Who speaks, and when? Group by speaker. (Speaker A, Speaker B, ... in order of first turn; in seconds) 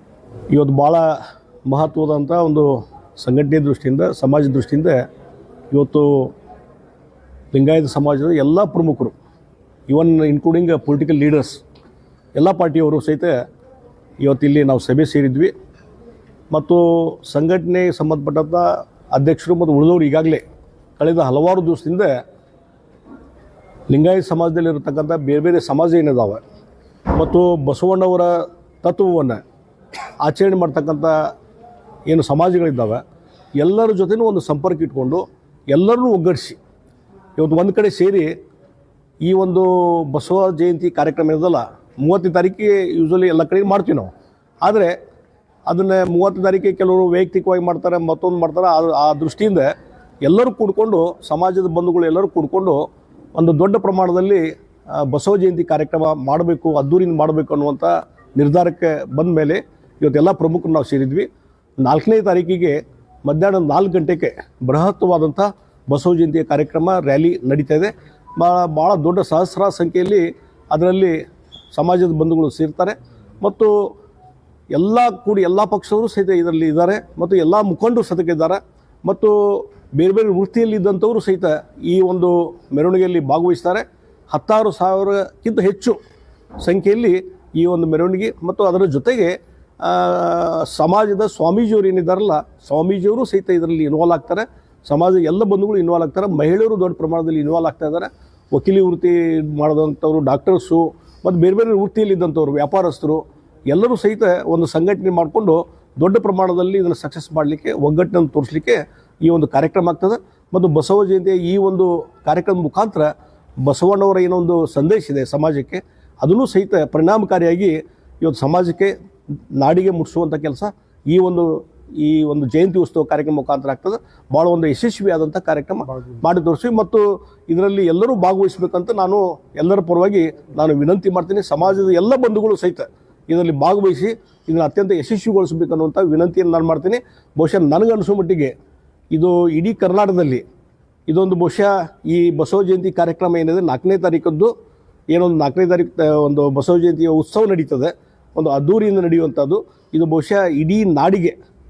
Speaker A: 0.5-1.1, 1.6-5.0, 5.7-6.3, 7.5-9.2, 9.9-11.6, 12.3-13.3, 14.2-15.5, 16.5-20.4, 21.0-22.1, 23.9-26.4, 27.1-29.4, 30.2-31.3, 32.1-33.0, 33.6-36.6, 37.4-38.3, 39.2-44.1, 44.6-44.9, 45.7-49.7, 50.2-61.3, 61.8-71.2, 71.7-73.9, 74.7-86.0, 86.6-113.1, 113.6-118.9, 119.5-138.5, 139.1-140.4, 141.1-144.5, 145.1-151.3